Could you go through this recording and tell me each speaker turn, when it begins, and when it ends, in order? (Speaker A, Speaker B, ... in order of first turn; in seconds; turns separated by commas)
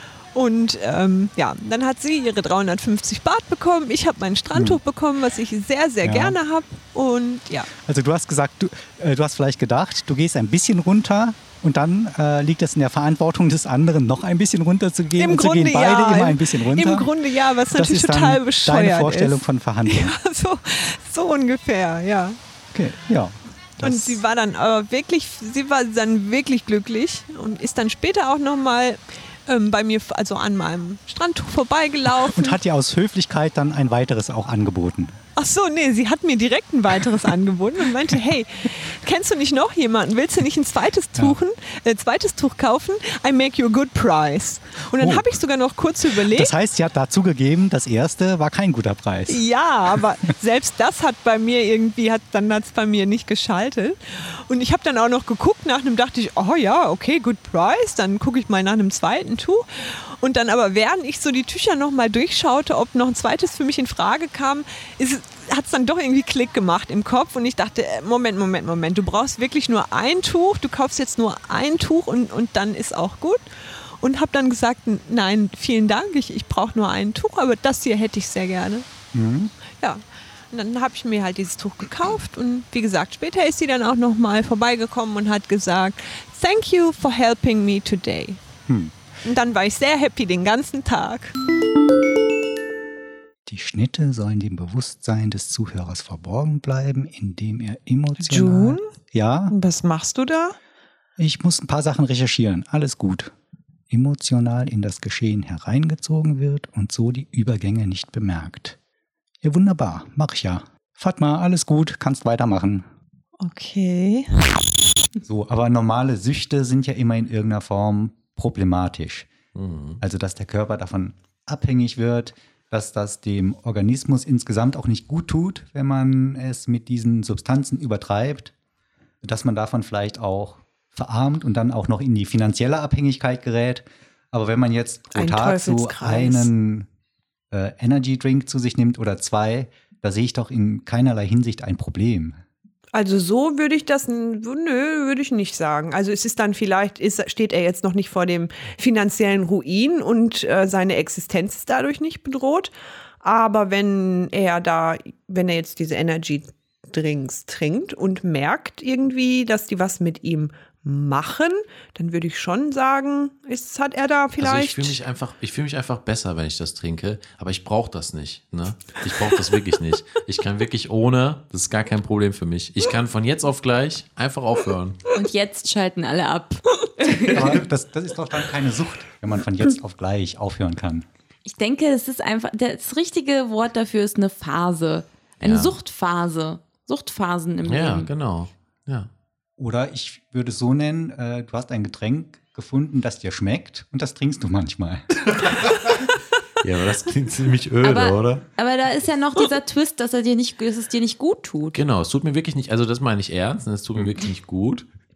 Speaker A: 0.3-7.7, Speaker B: 4.5-4.8, Speaker B: 6.0-6.4, Speaker B: 7.8-17.1, Speaker A: 15.2-22.4, Speaker B: 17.7-20.1, Speaker B: 22.7-24.2, Speaker A: 23.8-32.6, Speaker B: 32.1-35.2, Speaker A: 35.4-46.5, Speaker B: 45.0-45.3, Speaker B: 46.3-49.4, Speaker A: 49.3-73.4, Speaker A: 74.0-78.9, Speaker B: 79.1-79.5, Speaker A: 79.8-88.4, Speaker B: 88.7-89.0, Speaker A: 89.2-91.3, Speaker B: 93.5-99.5, Speaker A: 98.2-98.9, Speaker A: 99.5-100.6, Speaker B: 101.2-103.3, Speaker B: 103.9-108.8, Speaker B: 109.4-112.9, Speaker A: 113.4-114.4, Speaker B: 115.2-119.3, Speaker C: 119.5-120.0, Speaker B: 120.0-128.5, Speaker B: 129.2-136.9, Speaker A: 135.1-136.5, Speaker B: 137.5-142.4, Speaker A: 142.9-152.7, Speaker A: 153.2-165.0, Speaker C: 164.4-175.0, Speaker D: 175.1-177.6, Speaker B: 177.3-181.1, Speaker D: 181.4-188.1, Speaker C: 185.4-185.8, Speaker C: 187.7-189.1, Speaker B: 189.6-195.2, Speaker C: 195.4-196.0, Speaker C: 196.6-198.4, Speaker D: 197.8-201.8, Speaker C: 201.7-204.9